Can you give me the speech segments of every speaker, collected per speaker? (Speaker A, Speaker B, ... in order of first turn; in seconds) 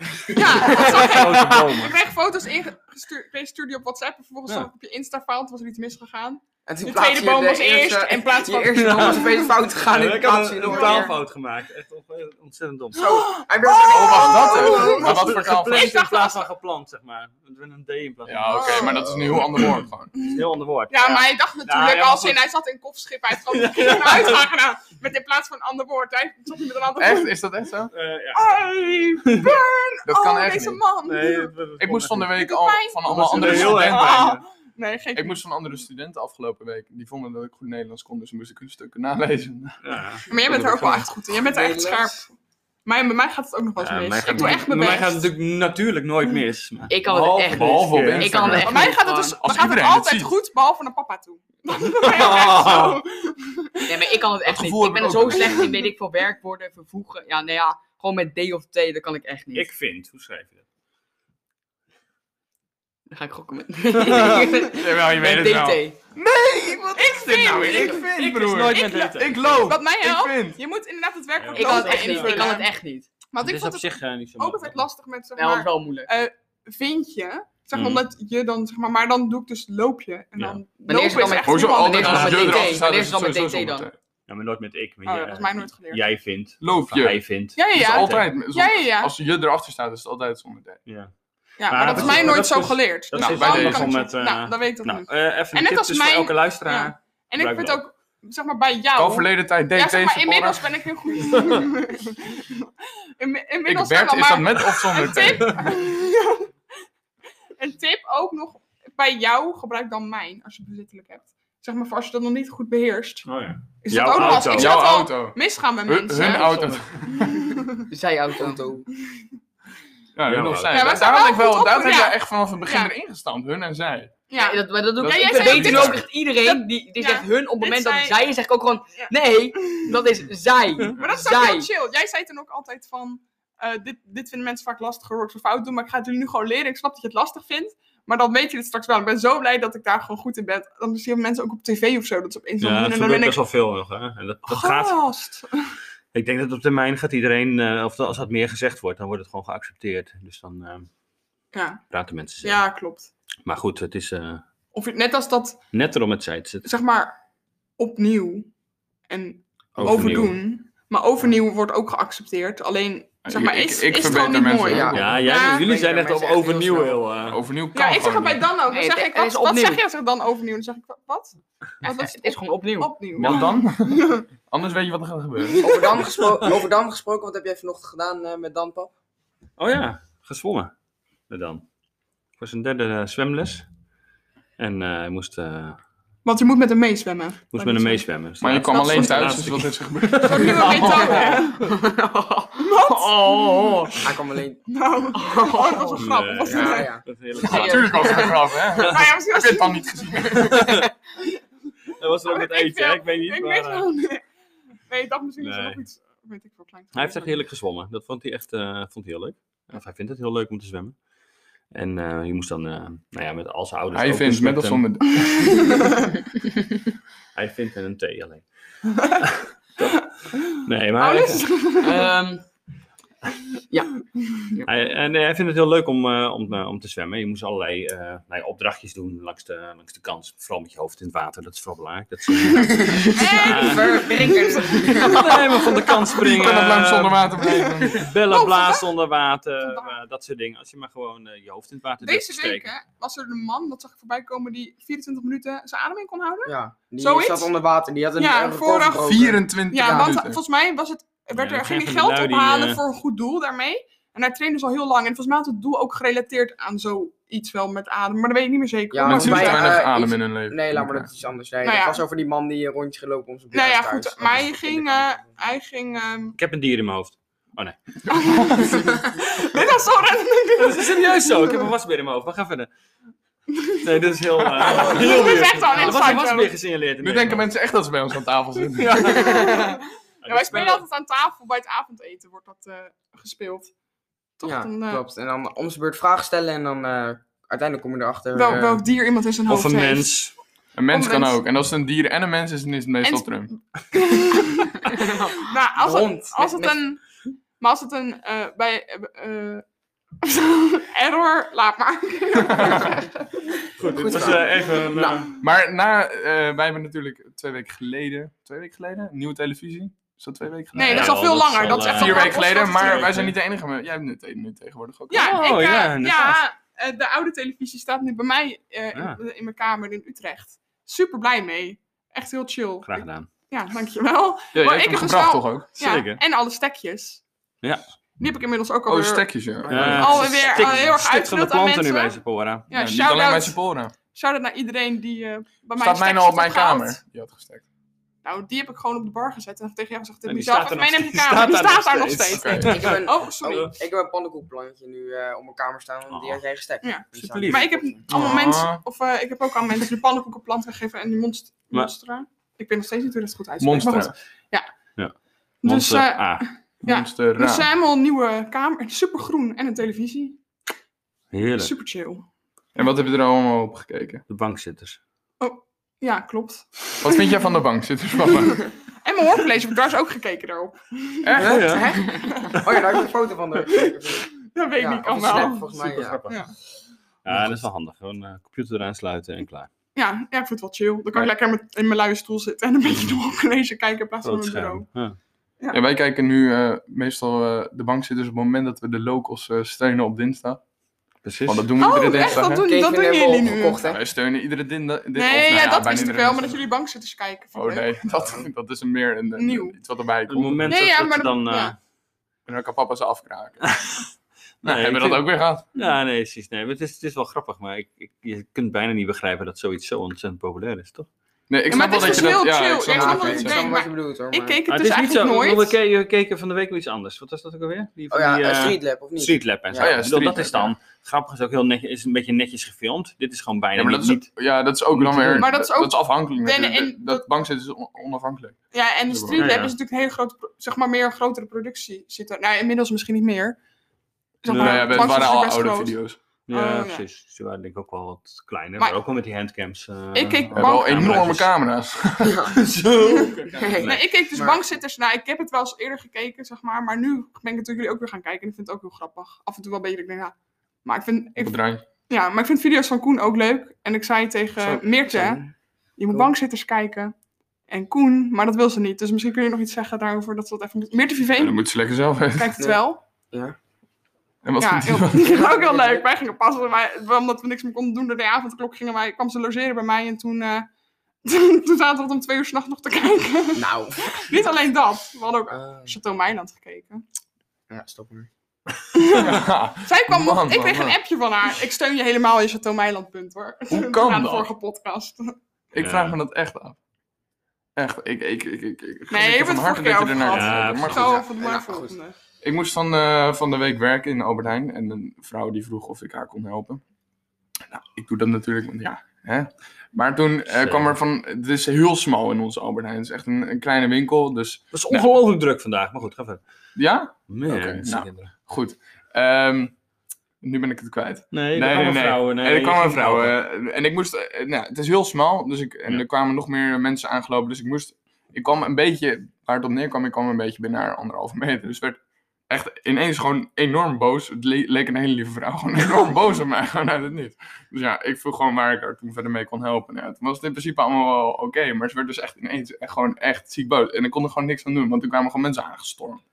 Speaker A: 0.3-9.4, 10.6-11.1, 13.0-16.5, 18.5-19.3, 20.1-27.4, 28.3-31.7, 32.3-35.4, 40.3-45.3, 48.6-54.1, 66.9-68.1, 68.7-72.7, 73.3-82.7, 85.0-86.0, 87.5-89.1, 91.6-106.5, 107.6-113.3, 113.8-117.8, 120.7-122.9, 124.3-128.2, 129.6-129.9, 130.9-143.4, 144.4-145.7, 151.5-151.8, 152.4-153.1, 154.7-155.6, 156.6-157.2, 157.8-158.5, 159.1-165.6, 167.7-174.3, 186.2-189.4, 190.2-191.6, 192.6-193.7, 194.7-197.1, 198.7-200.6, 202.2-204.2, 204.9-207.4, 215.2-216.1, 221.0-222.1, 233.1-236.2, 237.4-238.9, 239.6-239.9, 242.0-247.5, 248.2-259.9, 261.6-262.0, 263.5-266.4, 268.1-271.6, 273.5-273.9, 274.6-276.6, 279.0-283.7, 284.4-285.0, 288.3-290.4, 290.9-291.4, 293.0-299.6, 300.2-303.4, 310.7-313.3, 315.1-327.2, 328.2-337.0, 338.2-343.7, 346.8-354.7, 355.6-360.4, 361.6-362.2, 365.4-367.4, 368.3-372.9, 373.7-375.7, 376.2-376.5, 379.9-384.9, 391.8-393.8, 395.1-397.9, 399.4-399.8, 400.6-401.7, 411.7-415.7, 425.4-427.2, 428.7-433.6, 434.4-436.0, 436.5-437.0, 440.1-441.2, 443.8-451.6, 452.1-455.4, 456.0-457.1, 457.7-461.6, 462.3-463.0, 464.6-470.7, 471.2-477.0, 478.9-485.4, 489.1-492.2
Speaker B: 0.6-2.0, 8.7-13.3, 14.2-19.0, 20.2-22.4, 23.5-24.5, 27.9-29.6, 31.0-32.4, 33.0-34.4, 39.8-40.3, 43.8-48.6, 52.0-53.0, 59.5-60.6, 63.9-64.5, 67.4-69.8, 71.4-72.6, 73.4-74.8, 77.7-78.0, 80.4-80.6, 82.0-82.5, 84.3-88.3, 90.8-91.1, 91.7-97.8, 101.3-101.7, 113.2-114.8, 116.3-117.0, 120.3-121.0, 142.6-145.0, 146.1-150.9, 151.9-152.6, 153.4-154.4, 155.7-156.7, 159.8-160.4, 164.9-167.4, 179.6-180.7, 181.3-181.6, 182.4-183.7, 184.6-185.8, 187.5-191.7, 193.1-193.9, 196.0-198.3, 200.3-200.9, 202.0-203.9, 205.4-205.8, 206.9-211.0, 211.7-215.0, 217.3-221.6, 224.6-237.3, 237.9-242.7, 251.3-252.8, 266.4-267.8, 270.6-272.7, 273.8-277.5, 278.7-280.8, 289.5-290.4, 303.8-305.3, 310.7-313.4, 315.1-316.4, 322.8-323.3, 325.8-326.2, 327.6-327.9, 329.7-332.7, 340.2-343.7, 346.1-346.4, 347.1-348.2, 354.9-356.5, 361.3-361.7, 364.3-365.0, 371.4-372.0, 375.4-376.4, 377.2-379.7, 384.2-385.2, 391.2-391.7, 400.3-401.8, 403.7-404.0, 404.6-411.1, 414.7-424.4, 424.9-425.5, 429.3-429.7, 434.5-435.3, 436.5-441.5, 442.5-444.0, 485.8-486.2, 490.3-491.1, 500.5-501.0, 504.7-506.4, 507.3-508.3, 511.3-513.3
Speaker C: 6.7-11.2, 12.9-15.2, 41.4-42.2, 118.4-118.8, 164.6-167.0, 175.6-178.9, 194.0-194.6, 196.4-197.0, 232.8-235.3, 246.4-250.1, 258.9-265.4, 274.6-276.0, 284.4-288.8, 295.8-296.8, 303.8-305.3, 329.7-330.3, 342.7-348.1, 371.4-376.2, 392.3-394.0, 411.9-414.6, 418.1-420.0, 442.2-442.6, 443.1-444.6, 455.1-455.5, 463.3-463.6, 465.3-466.0, 473.5-474.2, 475.5-475.9, 477.7-478.3, 490.9-491.9
Speaker D: 13.9-16.0, 18.3-20.1, 27.0-27.9, 30.1-30.8, 31.8-34.4, 35.1-39.8, 47.0-50.3, 54.5-55.8, 64.7-70.6, 81.5-83.9, 86.6-90.8, 91.9-92.3, 93.1-93.9, 99.0-100.7, 103.7-105.6, 114.2-117.4, 120.2-124.2, 125.0-126.0, 159.9-160.1, 163.2-165.2, 167.3-168.4, 173.2-175.6, 188.4-191.3, 197.4-200.9, 213.9-215.7, 236.2-238.1, 249.0-250.4, 259.0-261.1, 268.3-268.7, 274.6-275.0, 277.0-279.3, 290.7-293.5, 302.5-302.9, 305.4-315.4, 324.5-325.7, 328.9-330.3, 332.7-333.9, 335.8-337.6, 342.3-342.8, 348.1-348.8, 353.6-354.1, 356.8-357.7, 362.7-364.2, 367.0-368.7, 371.2-372.0, 385.7-390.6, 391.4-392.7, 393.8-396.6, 397.5-400.8, 402.5-403.8, 404.6-405.6, 411.5-413.7, 419.7-420.7, 423.7-429.5, 434.5-436.2, 440.5-442.4, 451.4-451.8, 461.4-462.6, 464.4-465.4, 479.1-481.0, 483.7-484.5, 485.7-486.8, 487.8-491.2, 492.4-496.8, 497.7-505.1, 506.8-509.7, 510.4-536.2
Speaker E: 46.9-49.4, 53.9-59.7, 63.1-66.0, 71.5-73.1, 75.3-76.1, 80.9-83.9, 117.9-118.6, 124.3-131.7, 168.7-169.8, 171.8-173.4, 191.6-193.7, 195.1-196.1, 197.4-198.4, 221.8-222.5, 223.7-224.6